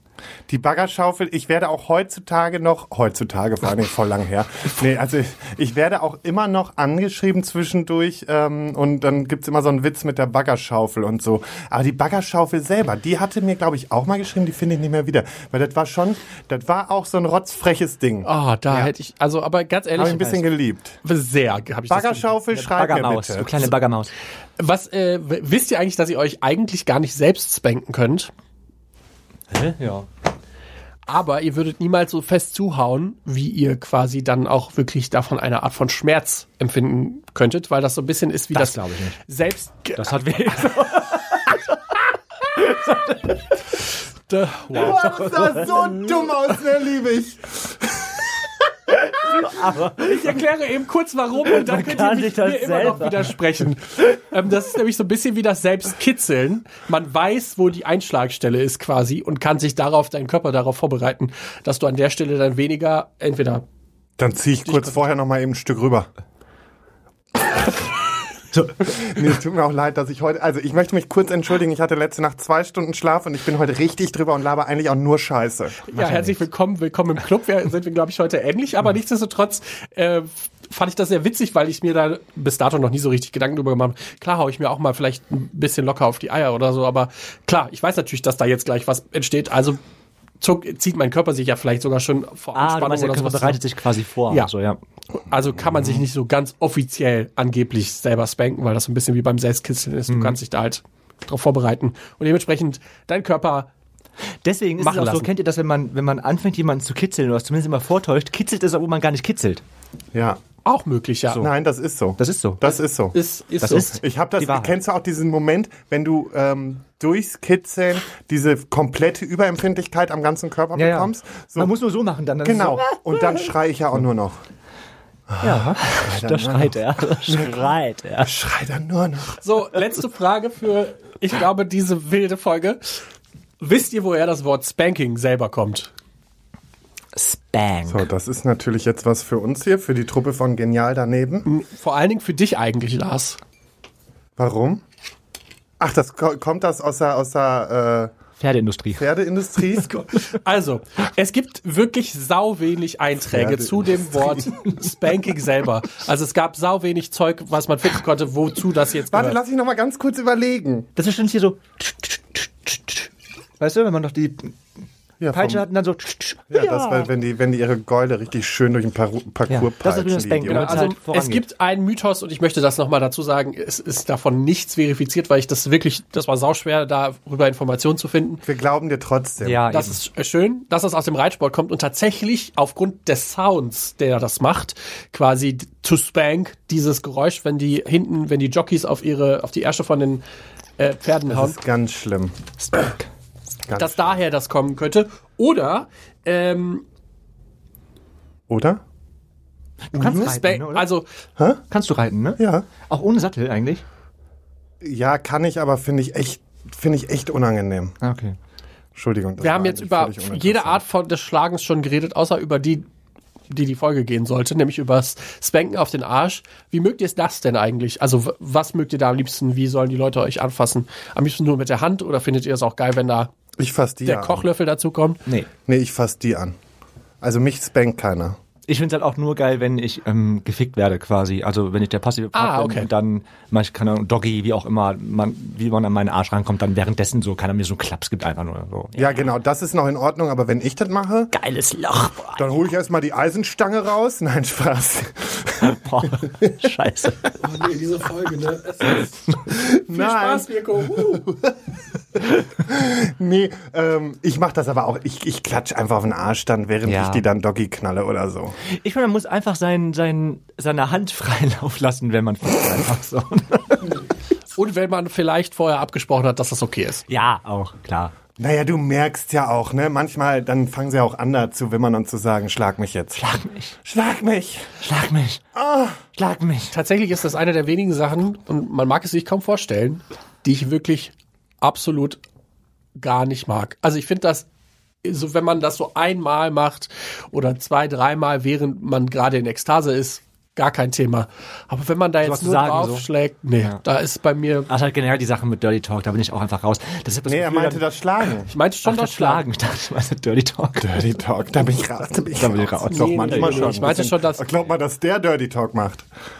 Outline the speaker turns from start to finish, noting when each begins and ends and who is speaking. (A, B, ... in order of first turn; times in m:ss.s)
0:00.5-0:18.3 A
0:18.2-0:20.4 B
0:19.9-0:20.4 C
0:20.0-0:21.0 A
0:21.0-0:22.3 B
0:21.9-0:23.7 A
0:22.5-0:24.1 C
0:24.6-0:28.3 B
0:29.5-0:30.1 C
0:31.1-0:40.8 B
0:38.5-0:39.2 C
0:39.9-0:41.7 C
0:42.5-0:43.6 C
0:44.3-0:45.0 B
0:44.7-0:48.0 A
0:44.8-0:46.0 C
0:49.2-0:50.4 C
0:49.8-1:03.6 B
0:51.5-0:53.3 C
1:04.2-1:06.1 A
1:04.6-1:05.0 B
1:08.8-1:15.8 A
1:15.9-1:29.8 B
1:15.9-1:16.4 C
1:30.4-1:33.6 B
1:32.5-1:34.8 C
1:35.3-1:43.7 B
1:40.1-1:40.4 C
1:44.4-1:49.6 C
1:44.8-1:45.3 B
1:50.1-1:50.4 A
1:50.6-1:51.4 B
1:51.4-1:53.2 A
1:52.2-1:52.6 C
1:53.1-1:54.0 B
1:53.6-1:54.8 C
1:54.0-2:01.7 A
2:00.8-2:03.5 C
2:02.4-2:04.4 A
2:05.3-2:09.4 A
2:05.4-2:08.3 C
2:09.4-2:13.0 B
2:13.6-2:15.9 B
2:17.1-2:18.0 C
2:17.9-2:21.5 A
2:21.4-2:23.4 B
2:24.4-2:24.8 A
2:25.8-2:28.1 A
2:28.4-2:29.0 C
2:29.0-2:29.9 A
2:30.0-2:39.4 B
2:33.2-2:34.4 A
2:39.1-2:40.9 A
2:41.0-2:43.1 C
2:43.6-2:44.6 C
2:45.2-2:45.6 A
2:45.3-2:47.1 C
2:46.5-2:50.8 A
2:49.5-2:51.4 C
2:50.4-2:58.4 B
2:58.4-2:59.6 A
2:59.4-3:00.0 C
2:59.7-3:10.2 B
3:10.8-3:11.6 B
3:11.3-3:12.4 A
3:13.7-3:14.2 A
3:13.8-3:16.8 B
3:18.5-3:18.8 A
3:19.9-3:20.9 C
3:20.0-3:21.0 B
3:21.4-3:21.6 A
3:21.7-3:23.8 C
3:22.4-3:22.7 A
3:24.8-3:28.0 A
3:28.0-3:28.4 C
3:28.9-3:30.8 A
3:29.4-3:32.8 B
3:33.5-3:43.3 B
3:43.6-3:44.4 A
3:44.0-3:45.2 B
3:45.6-3:46.6 A
3:47.2-3:48.4 A
3:48.7-3:59.1 C
3:52.3-3:52.9 B
3:59.0-4:01.3 A
4:01.3-4:02.5 C
4:02.4-4:06.3 A
4:05.6-4:07.3 C
4:07.4-4:11.3 B
4:09.7-4:11.5 A
4:12.6-4:18.6 A
4:16.8-4:17.2 C
4:18.6-4:24.0 C
4:24.6-4:27.0 B
4:27.1-4:28.1 C
4:28.4-4:33.2 A
4:33.1-4:33.7 C
4:33.8-4:34.8 A
4:34.8-4:35.4 C
4:35.5-4:36.0 A
4:36.1-4:36.7 C
4:36.7-4:42.2 B
4:43.0-4:44.4 B
4:45.0-4:54.7 B
4:52.2-4:53.0 C
4:54.7-4:57.8 C
4:57.2-4:58.5 A
4:58.5-4:59.4 B
4:58.8-5:01.0 C
5:00.8-5:06.0 A
5:02.4-5:03.9 C
5:02.9-5:04.4 B